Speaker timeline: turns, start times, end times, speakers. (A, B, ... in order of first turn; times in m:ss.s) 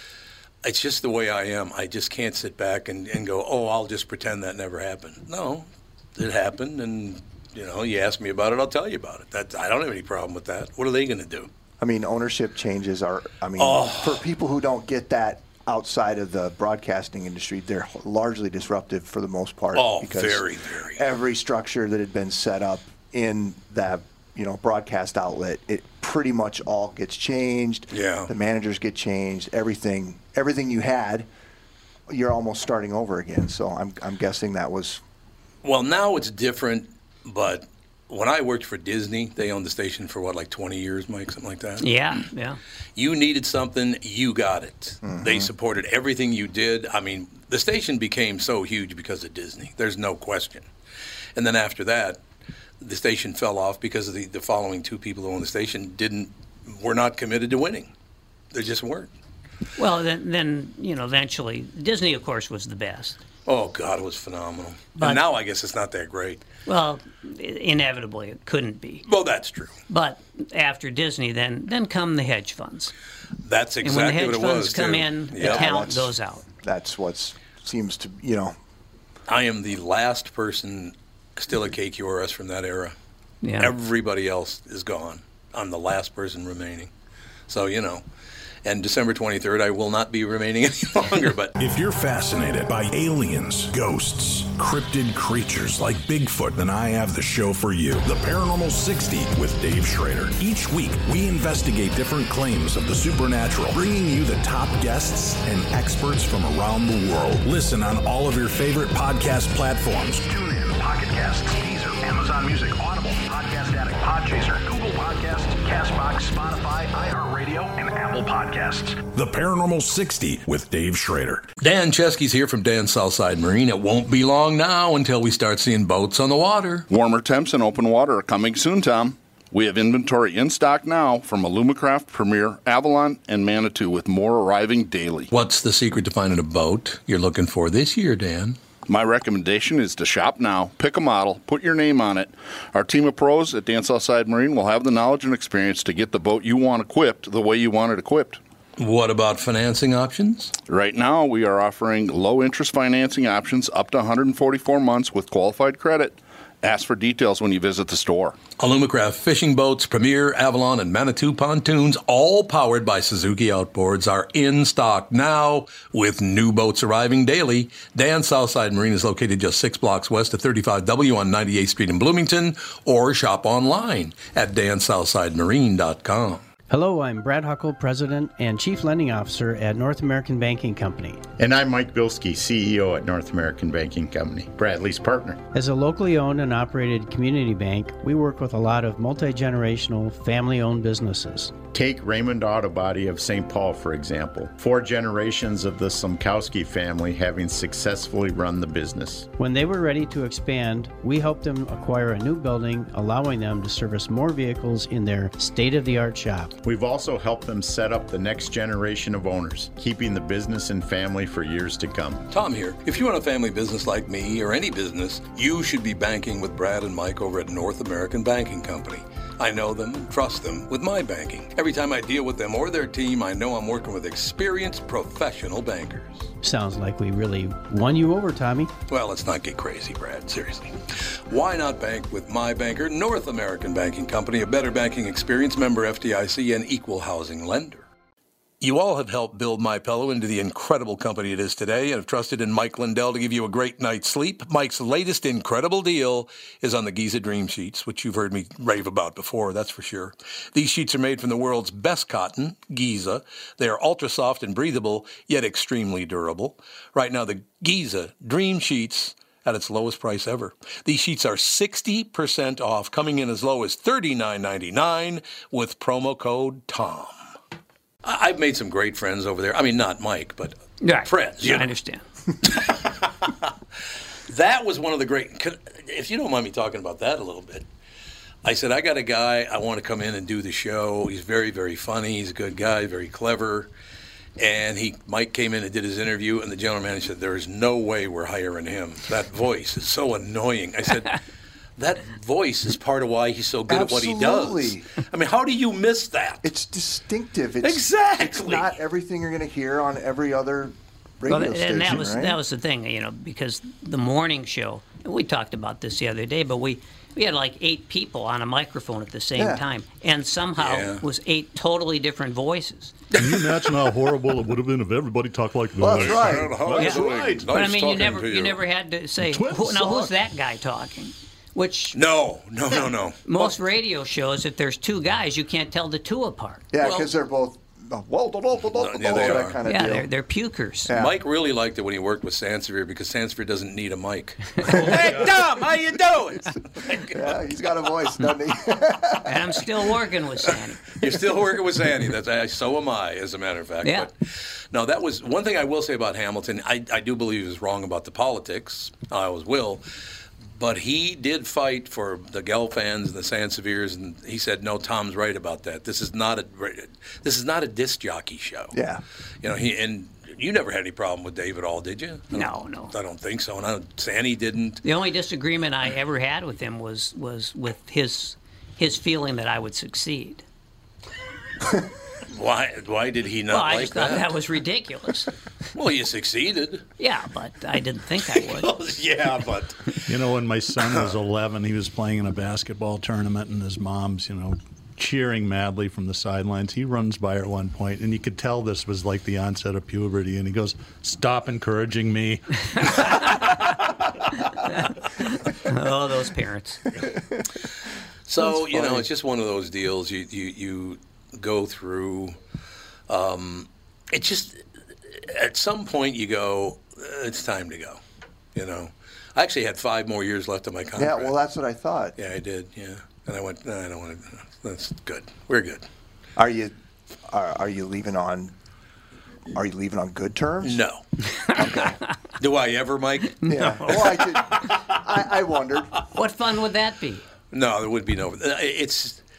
0:00.6-0:11.5 A
0:11.8-0:31.3 B
0:13.6-0:14.2 A
0:19.7-0:21.0 A
0:27.9-0:28.3 A
0:32.1-0:35.0 B
0:35.6-0:41.9 A
0:41.8-0:42.6 C
0:43.0-0:50.7 A
0:45.0-0:45.5 B
0:51.4-0:52.2 A
0:52.8-0:57.9 A
0:58.5-0:59.1 A
0:59.8-1:03.2 C
1:03.4-1:06.4 A
1:05.0-1:05.2 C
1:06.6-1:09.0 C
1:09.0-1:09.8 A
1:09.9-1:12.9 C
1:13.4-1:15.7 A
1:13.8-1:16.4 C
1:15.4-1:18.6 B
1:19.3-1:22.9 A
1:23.4-1:23.7 C
1:23.6-1:26.9 A
1:27.5-1:28.0 A
1:28.6-1:31.5 A
1:31.6-2:01.5 D
2:01.6-2:06.8 A
2:06.9-2:15.3 E
2:15.3-2:18.6 A
2:18.9-2:28.4 E
2:28.8-2:30.5 A
2:30.7-2:38.4 E
2:38.6-2:56.4 A
2:56.7-3:01.2 F
3:01.4-3:05.4 G
3:05.5-3:11.6 F
3:11.7-3:19.3 G
3:19.4-3:26.5 F
3:26.6-3:32.2 G
3:32.3-3:46.3 A
3:46.4-3:48.7 F
3:48.9-3:57.8 A
3:58.6-4:27.2 A
4:28.0-4:31.7 A
4:30.8-4:32.0 C
4:32.4-4:33.5 A
4:34.3-4:37.6 A
4:38.4-4:43.7 A
4:44.4-4:51.2 A
4:51.8-4:56.5 A
4:53.7-4:54.9 B
4:56.4-5:02.4 B
4:57.6-4:58.7 A
5:01.3-5:12.9 C
5:09.4-5:09.6 B
5:10.6-5:11.0 A
5:13.2-5:17.5 H
5:13.2-5:13.5 A
5:15.8-5:16.6 B
5:15.9-5:18.6 A
5:16.7-5:22.0 C
5:19.2-5:20.1 H
5:21.9-5:23.5 A
5:23.2-5:26.6 C
5:26.7-5:30.1 B
5:26.8-5:27.1 A
5:28.8-5:29.6 A
5:29.6-5:31.0 C
5:30.9-5:31.1 B
5:30.9-5:37.4 A
5:34.7-5:35.4 H
5:37.1-5:39.4 B
5:39.2-5:41.0 C
5:40.9-5:44.1 A
5:43.8-5:44.1 C
5:44.7-5:49.8 A
5:50.5-5:58.8 A
5:58.7-5:59.0 B
5:59.4-6:04.8 A
6:02.3-6:02.9 C
6:04.8-6:10.4 C
6:12.3-6:14.3 A
6:13.5-6:15.3 C
6:15.7-6:16.8 A
6:17.0-6:18.7 C
6:18.3-6:20.0 A
6:20.1-6:33.2 H
6:34.6-6:36.8 C
6:38.3-6:42.4 A
6:38.4-6:39.1 B
6:43.1-6:48.0 A
6:48.5-6:51.4 A
6:51.0-6:52.2 B
6:52.2-6:55.8 A
6:56.4-6:56.7 B
6:57.3-6:58.5 B
6:59.5-7:00.8 B
7:00.6-7:01.0 A
7:01.5-7:02.0 B
7:02.4-7:04.6 A
7:03.4-7:03.7 C
7:03.4-7:05.9 B
7:06.1-7:07.2 C
7:07.5-7:09.2 A